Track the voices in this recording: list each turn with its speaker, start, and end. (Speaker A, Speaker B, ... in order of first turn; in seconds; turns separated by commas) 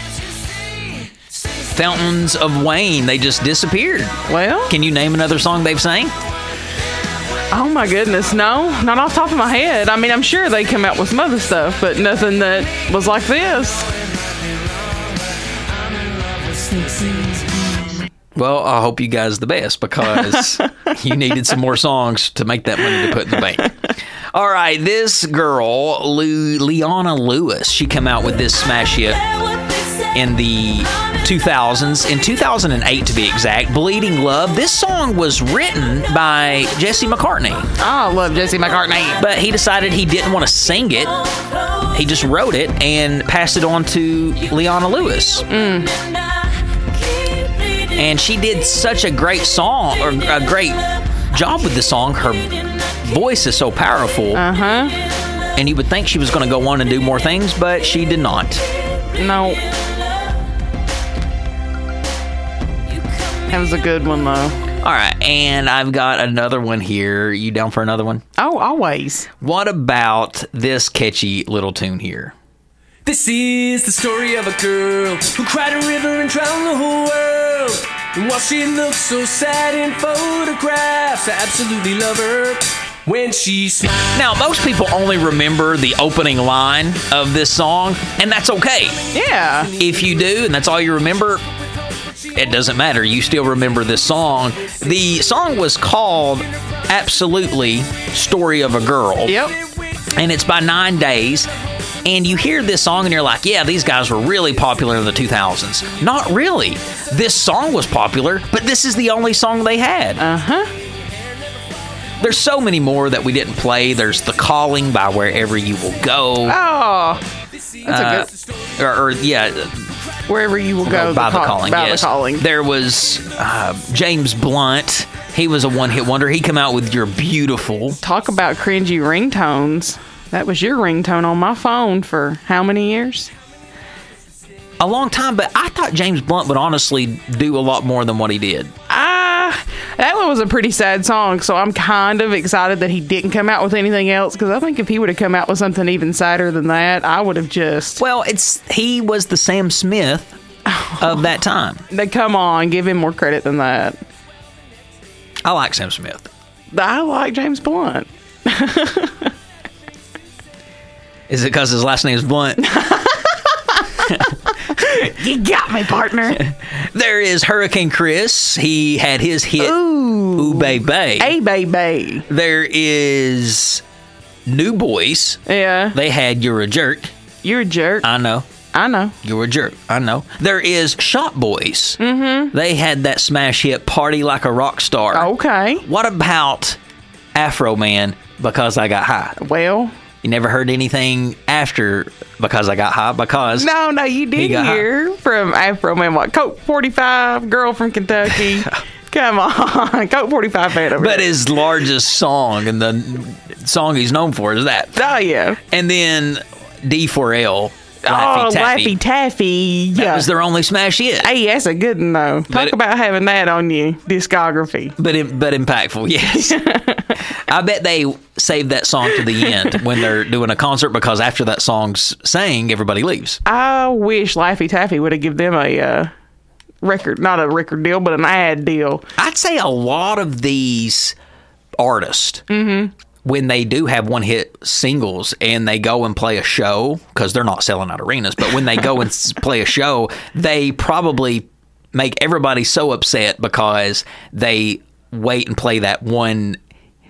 Speaker A: 1.7-6.1, Speaker B: 4.3-4.7, Speaker B: 7.5-13.9, Speaker B: 16.8-17.5, Speaker A: 18.3-23.7, Speaker A: 24.3-29.3, Speaker A: 30.1-37.7, Speaker B: 37.8-39.2, Speaker A: 39.2-41.1, Speaker A: 41.8-45.5, Speaker B: 45.5-46.0, Speaker A: 47.9-54.4, Speaker B: 54.3-55.0, Speaker A: 55.5-58.6, Speaker B: 59.1-59.6, Speaker B: 63.5-64.6, Speaker A: 64.8-68.2, Speaker B: 68.4-69.3, Speaker A: 69.4-72.3, Speaker C: 73.0-84.1, Speaker A: 84.1-89.1, Speaker B: 89.1-89.7, Speaker A: 89.8-91.4, Speaker A: 92.3-99.4, Speaker B: 99.3-99.5, Speaker A: 100.1-101.5, Speaker A: 102.0-110.2, Speaker B: 110.2-110.7, Speaker A: 112.2-116.6, Speaker B: 116.4-117.2, Speaker B: 117.8-118.3, Speaker A: 117.8-119.9, Speaker B: 120.3-122.4, Speaker A: 120.8-128.0, Speaker B: 128.0-133.3, Speaker A: 134.8-138.7, Speaker B: 138.9-148.0, Speaker A: 148.0-150.3, Speaker B: 150.7-151.1, Speaker A: 151.0-151.8, Speaker B: 151.9-154.0, Speaker A: 155.4-156.3, Speaker B: 156.7-159.3, Speaker A: 161.3-162.7, Speaker B: 162.6-164.1, Speaker B: 164.7-166.4, Speaker A: 166.4-171.3, Speaker B: 169.6-172.2, Speaker A: 172.3-173.8, Speaker A: 174.4-175.4, Speaker B: 175.5-175.9, Speaker A: 175.9-177.1, Speaker B: 177.4-178.1, Speaker A: 178.0-178.5, Speaker B: 178.7-179.1, Speaker A: 179.2-182.0, Speaker B: 182.0-182.5, Speaker A: 182.5-185.3, Speaker B: 185.1-185.8, Speaker A: 185.8-186.8, Speaker A: 187.3-189.4, Speaker B: 189.4-189.9, Speaker A: 190.2-193.7, Speaker B: 193.6-201.3, Speaker A: 194.3-194.9, Speaker A: 200.9-205.0, Speaker B: 204.9-205.6, Speaker A: 205.7-208.9, Speaker B: 208.0-210.3, Speaker A: 209.9-211.3, Speaker B: 211.2-214.9, Speaker A: 212.5-212.8, Speaker A: 215.0-216.6, Speaker B: 216.3-217.1, Speaker A: 217.3-223.4, Speaker B: 223.4-226.1, Speaker B: 226.8-229.0, Speaker A: 229.2-231.2, Speaker A: 231.8-232.4, Speaker B: 232.5-232.9, Speaker A: 233.2-246.6